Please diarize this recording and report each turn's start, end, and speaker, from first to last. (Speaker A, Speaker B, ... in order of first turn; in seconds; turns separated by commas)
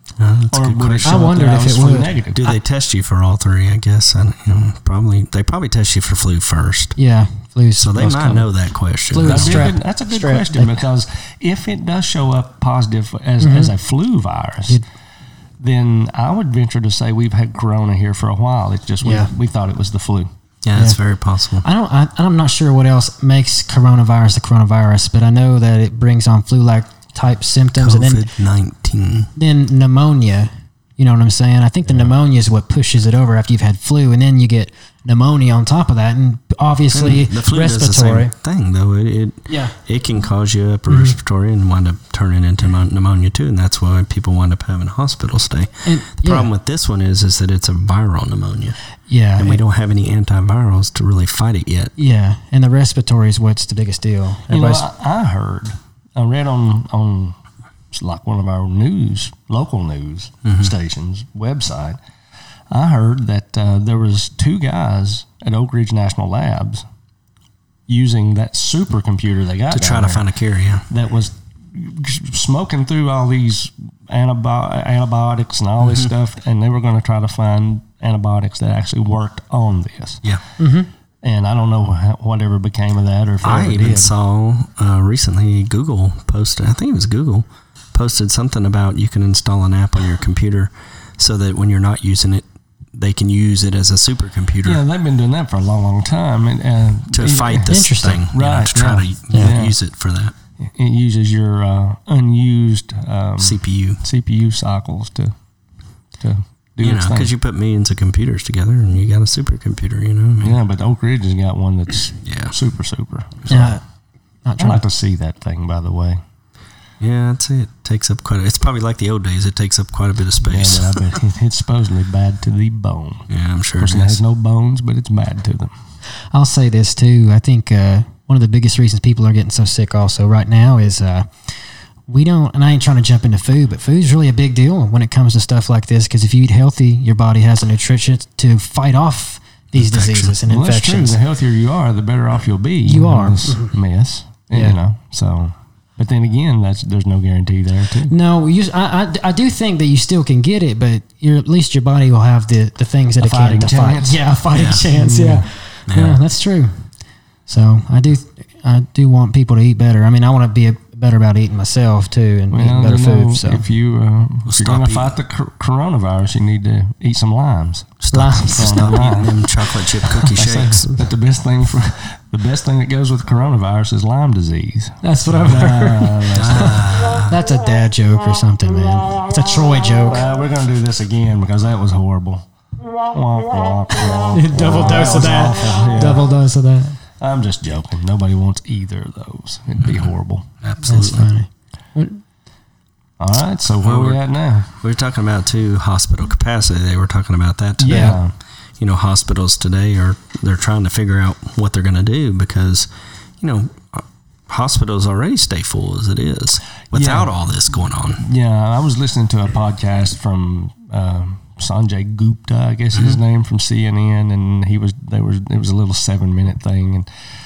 Speaker A: 0.2-1.3, Speaker B: 0.5-2.5, Speaker C: 1.0-2.1, Speaker A: 2.3-7.0, Speaker C: 7.0-8.5, Speaker A: 7.8-9.7, Speaker C: 9.1-10.8, Speaker B: 9.2-14.8, Speaker C: 13.4-13.7, Speaker B: 15.6-20.3, Speaker C: 19.0-19.3, Speaker A: 20.6-21.6, Speaker C: 20.7-21.0, Speaker C: 21.6-28.3, Speaker A: 27.8-29.3, Speaker C: 29.4-38.3, Speaker A: 36.9-48.8, Speaker C: 39.5-39.7, Speaker C: 40.9-41.1, Speaker C: 45.8-46.5, Speaker C: 49.1-49.6, Speaker A: 49.4-51.9, Speaker C: 52.0-54.9, Speaker B: 54.5-57.4, Speaker B: 57.9-62.0, Speaker A: 60.4-60.7, Speaker B: 62.7-66.8, Speaker B: 67.9-70.3, Speaker A: 69.7-70.8, Speaker B: 70.9-80.2, Speaker A: 75.8-76.1, Speaker C: 80.6-80.9, Speaker B: 81.2-84.1, Speaker A: 83.4-94.8, Speaker B: 94.6-99.8, Speaker A: 97.1-100.3, Speaker C: 97.7-98.2, Speaker B: 100.6-105.3, Speaker A: 103.4-104.0, Speaker B: 106.2-107.3, Speaker A: 106.8-110.6, Speaker B: 110.4-113.7, Speaker A: 112.2-112.5, Speaker C: 113.5-113.8, Speaker C: 114.4-114.8, Speaker B: 114.6-116.2, Speaker A: 117.0-121.1, Speaker B: 120.4-123.3, Speaker A: 123.3-124.2, Speaker B: 123.8-125.7, Speaker C: 126.3-131.3, Speaker C: 132.1-141.2, Speaker A: 139.7-140.4, Speaker B: 140.5-148.1, Speaker C: 142.8-143.7, Speaker C: 148.1-156.8, Speaker B: 153.2-154.2, Speaker A: 154.5-154.8, Speaker B: 154.9-155.5, Speaker A: 155.9-156.2, Speaker C: 157.5-163.6, Speaker B: 162.5-176.9, Speaker A: 164.5-165.2, Speaker A: 168.0-170.9, Speaker C: 168.1-168.9, Speaker C: 175.0-180.3, Speaker A: 176.3-177.4, Speaker B: 180.1-182.4, Speaker B: 183.1-186.3, Speaker C: 184.3-187.0, Speaker B: 187.2-190.5, Speaker A: 190.6-191.3, Speaker C: 190.8-192.2, Speaker B: 193.2-194.7, Speaker A: 193.8-194.2, Speaker A: 194.8-198.2, Speaker B: 197.8-198.3, Speaker C: 197.8-198.2, Speaker A: 198.8-208.3, Speaker B: 206.9-207.3, Speaker B: 208.2-217.1, Speaker A: 212.9-213.2